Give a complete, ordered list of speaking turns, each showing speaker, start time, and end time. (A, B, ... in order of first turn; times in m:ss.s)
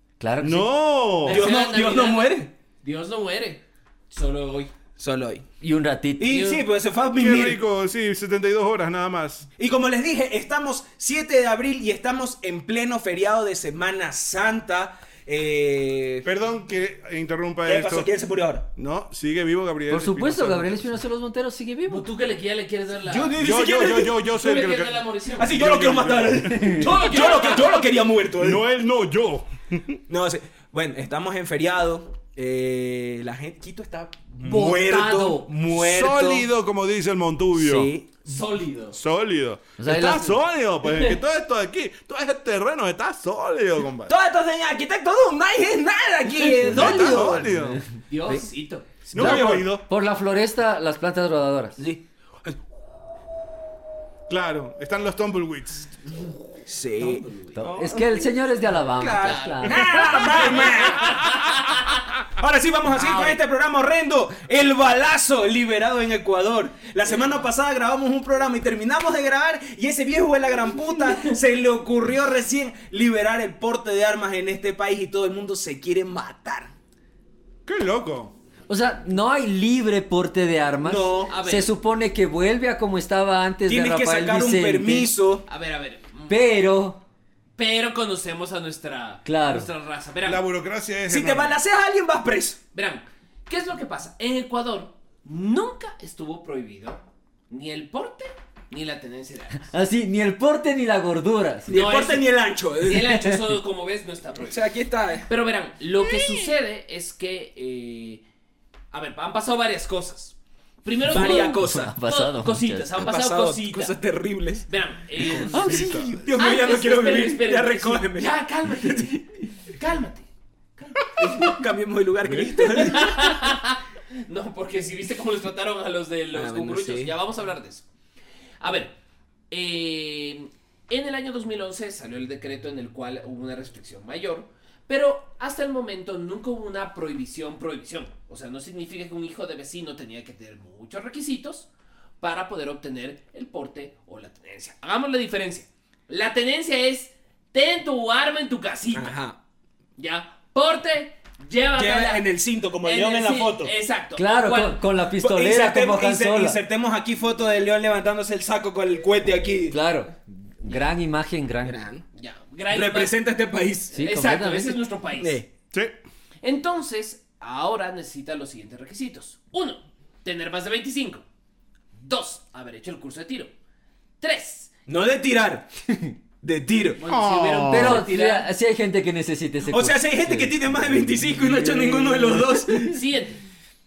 0:00.2-0:00.7 A
0:00.4-0:01.4 B
0:01.2-0:04.7 C
0:01.3-0:02.5 D
0:05.0-0:05.5 D
0:05.6-0:06.4 A
0:06.2-0:07.6 D
0:06.3-0:06.6 C
0:07.2-0:09.5 B
0:09.6-0:16.3 D
0:16.2-0:18.1 B
0:17.6-0:18.6 D
0:18.8-0:21.0 B
0:19.9-0:22.0 A
0:21.9-0:23.4 C
0:23.0-0:24.1 D
0:23.4-0:27.0 B
0:24.3-0:25.6 C
0:25.4-0:28.6 D
0:26.7-0:27.9 C
0:28.4-0:30.0 B
0:30.1-0:36.5 D
0:34.5-0:35.5 C
0:34.5-0:34.8 B
0:35.7-0:37.9 B
0:37.5-0:38.1 D
0:38.2-0:39.0 C
0:38.9-0:44.1 B
0:39.8-0:40.4 A
0:44.1-0:47.5 D
0:46.4-0:48.4 A
0:46.6-0:47.8 B
0:48.1-0:48.9 C
0:49.1-0:49.7 D
0:49.1-0:49.8 B
0:49.1-0:51.8 A
0:51.8-0:52.6 D
0:54.3-0:56.3 B
0:56.7-0:58.4 D
0:57.0-0:57.6 C
0:57.5-1:00.0 A
0:58.9-1:01.4 D
0:59.1-1:02.0 C
1:02.4-1:16.7 D
1:02.9-1:03.4 C
1:07.0-1:07.4 C
1:17.6-1:18.3 B
1:18.7-1:25.1 A
1:20.8-1:21.3 D
1:21.3-1:21.7 C
1:23.7-1:25.4 D
1:25.5-1:26.4 C
1:26.3-1:27.0 A
1:27.6-1:30.4 C
1:29.2-1:29.7 A
1:30.2-1:31.6 B
1:31.1-1:32.6 D
1:32.7-1:39.7 C
1:39.7-1:41.8 A
1:41.7-1:42.3 C
1:41.7-1:43.2 D
1:42.8-1:44.7 C
1:44.4-1:45.3 D
1:45.3-1:48.2 C
1:48.9-1:54.0 C
1:51.1-1:51.9 D
1:51.1-1:52.9 A
1:52.9-1:54.6 D
1:54.7-1:55.8 C
1:55.2-1:59.0 D
1:55.2-1:56.3 B
1:55.5-1:56.3 A
1:56.4-2:01.5 C
2:01.2-2:03.2 D
2:02.5-2:07.8 C
2:06.3-2:07.1 D
2:08.6-2:08.9 C
2:09.5-2:21.7 C
2:22.2-2:29.2 C
2:28.9-2:29.4 D
2:30.0-2:32.2 C
2:31.8-2:33.7 D
2:32.8-2:34.8 C
2:34.2-2:36.6 A
2:35.2-2:39.8 D
2:39.7-2:41.8 A
2:41.6-2:42.0 D
2:42.2-2:43.1 C
2:42.7-2:44.0 D
2:43.9-2:45.4 C
2:43.9-2:44.8 A
2:45.2-2:45.5 D
2:46.4-2:51.2 C
2:52.0-2:53.5 C
2:54.2-2:54.7 C
2:54.9-2:55.7 D
2:55.9-2:56.1 A
2:56.4-2:57.0 D
2:57.0-2:58.5 C
2:57.0-2:58.0 B
2:57.7-3:00.6 A
2:59.7-3:03.0 D
3:01.5-3:02.9 A
3:02.8-3:03.4 C